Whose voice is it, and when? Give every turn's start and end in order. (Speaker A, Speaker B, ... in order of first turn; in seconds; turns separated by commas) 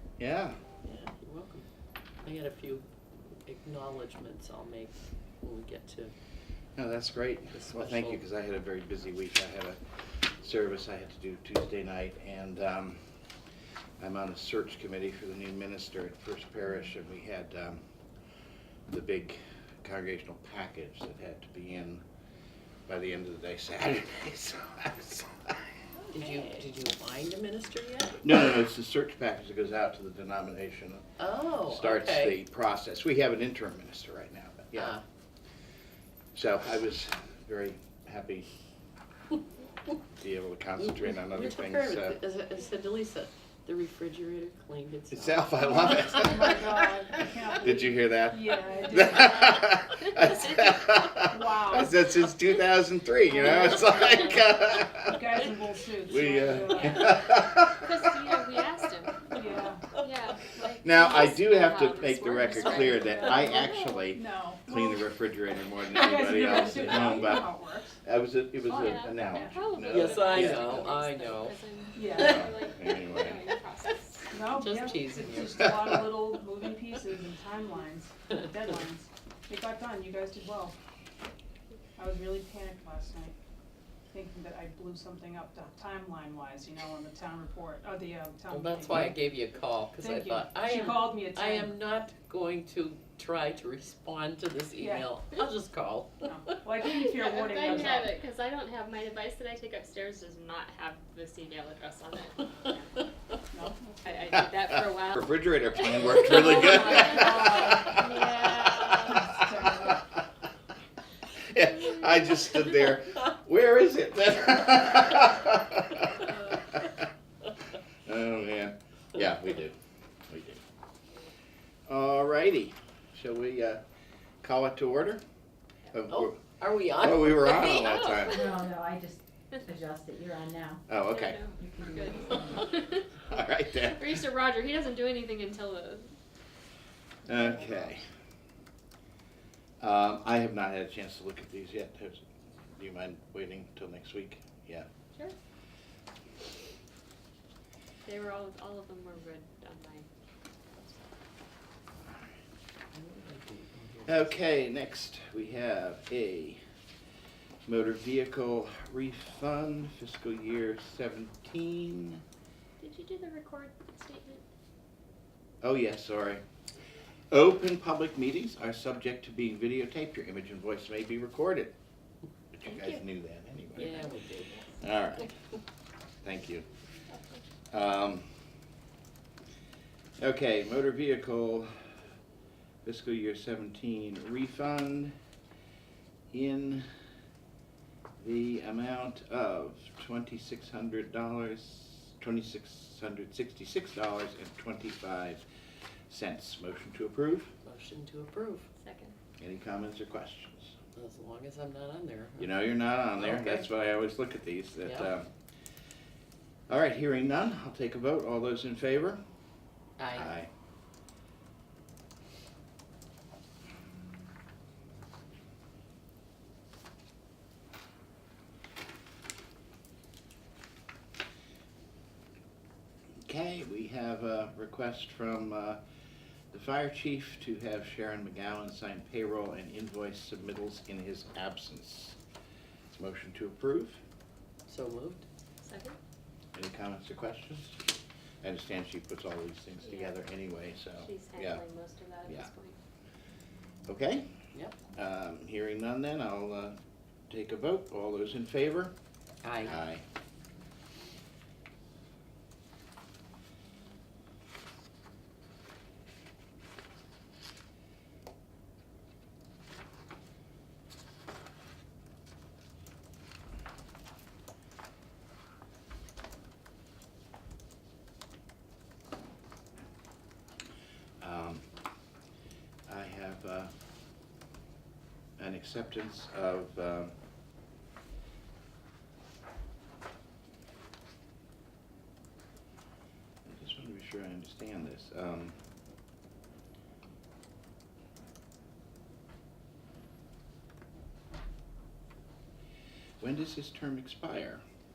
Speaker A: 0.2-0.6, Speaker B: 0.8-1.6, Speaker B: 2.2-2.8, Speaker B: 3.4-6.1, Speaker A: 6.8-13.0, Speaker B: 7.5-8.2, Speaker A: 14.0-17.8, Speaker A: 18.9-22.0, Speaker A: 22.9-25.7, Speaker B: 26.1-28.2, Speaker A: 28.2-31.0, Speaker B: 31.2-32.4, Speaker A: 31.6-35.0, Speaker B: 34.7-35.0, Speaker A: 36.3-38.5, Speaker A: 40.1-42.2, Speaker B: 40.8-46.4, Speaker A: 45.1-46.6, Speaker C: 45.6-49.6, Speaker A: 47.6-55.2, Speaker D: 48.9-50.9, Speaker C: 51.3-51.9, Speaker C: 53.3-53.9, Speaker C: 55.0-57.4, Speaker A: 56.0-57.9, Speaker D: 57.7-59.3, Speaker C: 59.3-59.9, Speaker D: 60.0-64.0, Speaker A: 60.8-67.5, Speaker C: 62.3-65.0, Speaker C: 65.9-68.0, Speaker B: 66.8-67.2, Speaker A: 68.0-70.7, Speaker D: 68.6-74.3, Speaker C: 69.2-69.5, Speaker B: 69.9-71.6, Speaker C: 72.0-72.4, Speaker B: 72.1-72.5, Speaker A: 72.1-73.4, Speaker C: 74.3-80.8, Speaker B: 74.5-75.7, Speaker C: 82.0-83.3, Speaker C: 84.1-89.2, Speaker B: 88.5-96.3, Speaker C: 90.0-91.7, Speaker C: 94.8-95.1, Speaker C: 96.2-98.1, Speaker D: 97.1-103.0, Speaker C: 103.5-104.0, Speaker D: 104.0-109.2, Speaker A: 104.7-110.2, Speaker C: 106.5-108.0, Speaker C: 109.1-110.0, Speaker A: 111.5-117.0, Speaker D: 111.6-112.9, Speaker A: 118.0-119.8, Speaker A: 120.3-120.6, Speaker A: 121.9-123.8, Speaker A: 124.4-125.2, Speaker A: 125.9-128.4, Speaker B: 126.1-127.9, Speaker D: 127.5-128.7, Speaker E: 128.3-130.8, Speaker A: 130.9-131.4, Speaker D: 131.0-133.1, Speaker E: 131.6-132.7, Speaker A: 133.3-134.2, Speaker D: 133.8-136.1, Speaker A: 137.2-138.0, Speaker D: 137.3-137.6, Speaker B: 137.4-137.7, Speaker A: 139.8-144.9, Speaker D: 148.0-150.1, Speaker D: 150.7-151.1, Speaker B: 152.9-154.3, Speaker A: 154.1-156.6, Speaker A: 157.7-162.2, Speaker D: 162.8-164.4, Speaker A: 165.6-166.4, Speaker A: 167.3-171.7, Speaker A: 172.5-174.0, Speaker D: 172.6-173.0, Speaker B: 173.8-174.6, Speaker D: 173.8-174.7, Speaker A: 174.8-175.3, Speaker A: 176.2-176.6, Speaker D: 177.1-177.4, Speaker A: 177.7-178.3, Speaker A: 180.2-181.7, Speaker A: 182.8-185.1, Speaker A: 186.3-186.9, Speaker A: 188.2-195.4, Speaker A: 196.1-197.5, Speaker B: 197.6-198.7, Speaker D: 198.8-199.2, Speaker A: 199.4-200.7, Speaker B: 200.9-202.6, Speaker A: 202.4-205.3, Speaker B: 203.1-203.7, Speaker B: 204.8-205.1, Speaker A: 206.7-209.2, Speaker B: 210.0-210.3, Speaker A: 210.1-210.5, Speaker A: 223.2-225.8, Speaker A: 226.5-232.2, Speaker A: 232.9-234.0, Speaker B: 234.7-235.2, Speaker D: 235.6-236.0, Speaker A: 236.5-237.8, Speaker A: 238.4-241.6, Speaker D: 239.8-240.2, Speaker D: 241.0-242.8, Speaker A: 243.9-244.3, Speaker A: 244.9-246.8, Speaker A: 247.3-248.9, Speaker B: 249.4-249.8, Speaker A: 249.6-250.0, Speaker A: 271.2-271.7, Speaker A: 272.9-273.7, Speaker A: 275.4-277.1, Speaker A: 283.4-285.5, Speaker A: 293.2-294.6